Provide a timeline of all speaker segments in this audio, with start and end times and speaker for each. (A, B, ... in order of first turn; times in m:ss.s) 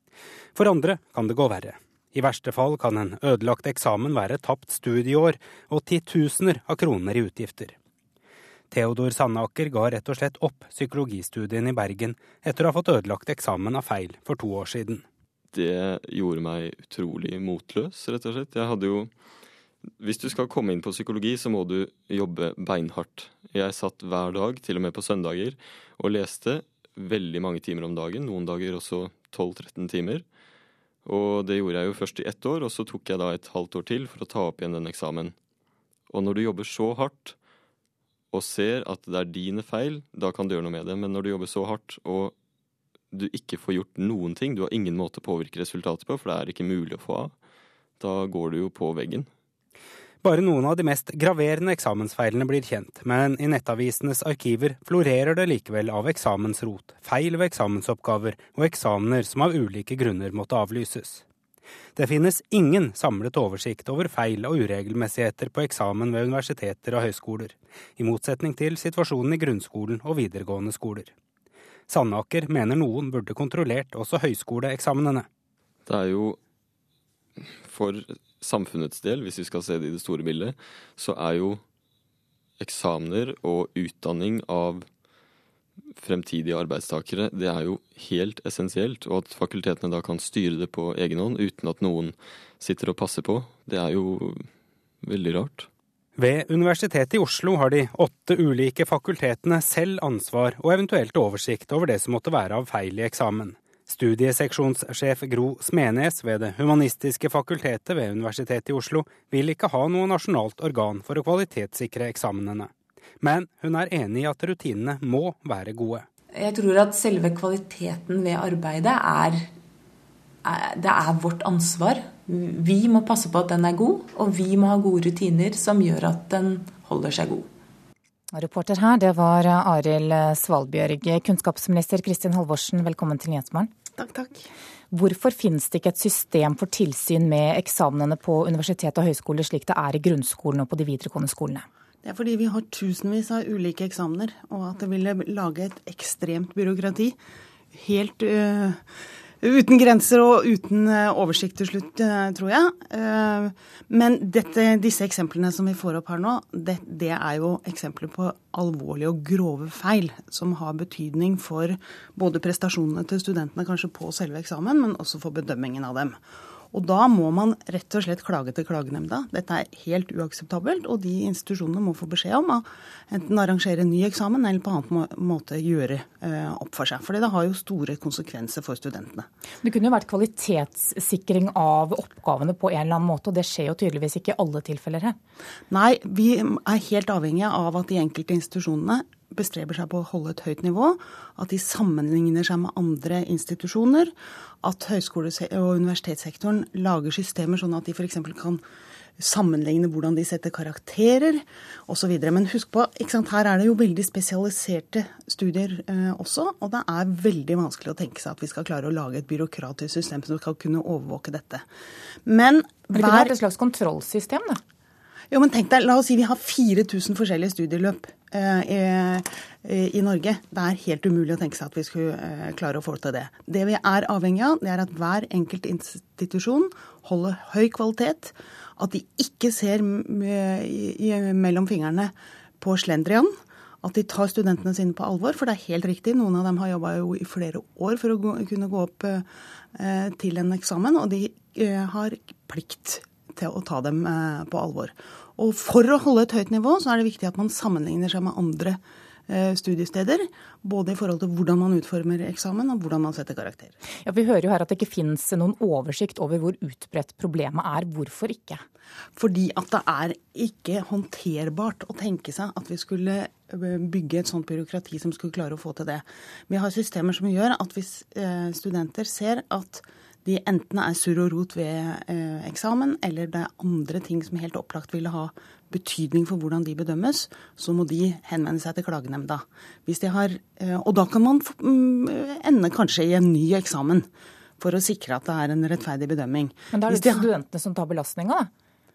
0:00.6-0:07.7 A
0:08.7-0:15.0 A
0:15.5-0:19.1 B
0:20.0-0:30.2 B
0:31.0-0:35.3 B
0:36.1-0:37.3 B
0:38.3-0:42.3 B
0:43.1-0:47.3 B
0:48.0-0:49.3 B
0:50.2-1:01.2 A
1:02.0-1:11.1 A
1:11.9-1:15.3 A
1:15.9-1:16.4 B
1:17.4-1:21.6 B
1:22.6-1:24.9 B
1:26.0-1:34.5 B
1:35.0-1:35.7 B
1:36.2-1:52.7 A
1:53.2-1:56.0 A
1:56.4-1:59.4 C
2:00.5-2:07.4 C
2:08.3-2:13.7 D
2:14.0-2:14.5 E
2:14.9-2:21.6 D
2:22.0-2:27.2 E
2:27.7-2:28.8 E
2:29.4-2:46.2 E
2:46.7-2:59.3 E
2:59.6-3:05.2 D
3:05.7-3:18.6 E
3:19.2-3:31.7 E
3:32.3-3:33.3 E
3:32.9-3:34.6 D
3:35.3-4:13.7 E
4:14.0-4:18.6 D
4:19.2-4:44.1 E
4:44.6-4:47.3 E
4:46.7-4:48.5 D